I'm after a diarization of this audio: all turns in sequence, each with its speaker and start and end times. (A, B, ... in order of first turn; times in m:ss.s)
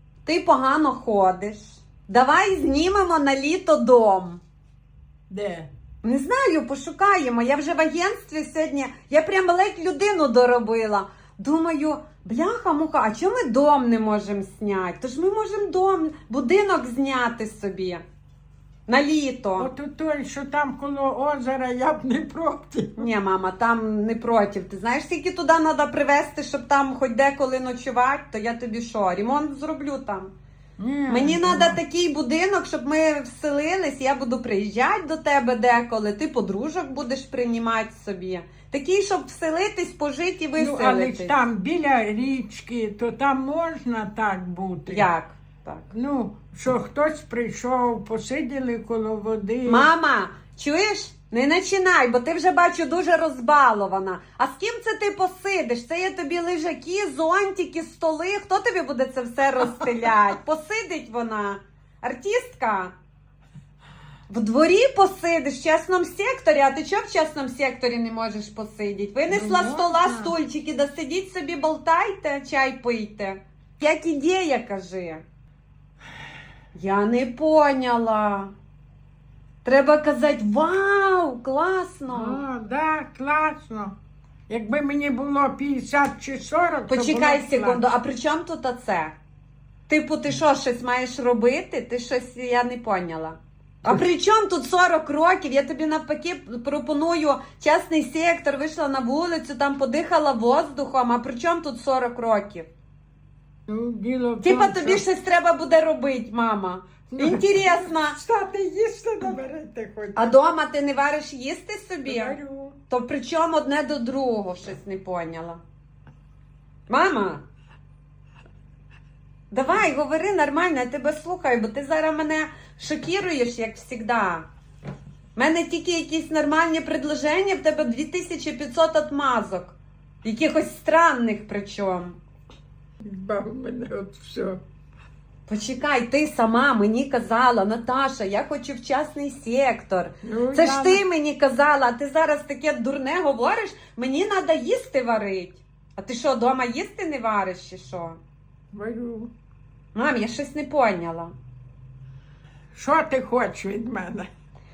0:00.2-0:04.4 A
0:05.3-0:05.7 B
0:06.0-0:18.0 A
0:18.9-0:19.7 A
0:19.6-0:23.1 B
0:23.0-0:30.3 A
0:30.8-0:31.8 B
0:31.1-0:41.3 A
0:40.6-0:45.1 B
0:44.9-0:45.8 A
0:45.9-0:49.9 B
0:49.6-1:03.0 A
1:04.3-1:15.2 A
1:09.3-1:10.3 B
1:16.8-1:18.5 A
1:19.6-1:22.4 A
1:22.1-1:23.9 B
1:24.5-1:27.9 B
1:26.9-1:29.2 A
1:29.9-1:42.7 A
1:43.7-1:45.0 B
1:44.4-1:48.2 A
1:47.1-1:50.3 B
1:50.2-1:52.4 A
1:52.1-1:52.8 B
1:52.9-1:55.6 A
1:56.9-1:57.4 A
1:59.5-2:04.5 A
2:05.4-2:12.2 A
2:13.0-2:14.6 B
2:15.5-2:28.2 A
2:20.2-2:21.0 B
2:28.7-2:29.3 B
2:29.9-2:31.3 A
2:32.7-2:34.3 B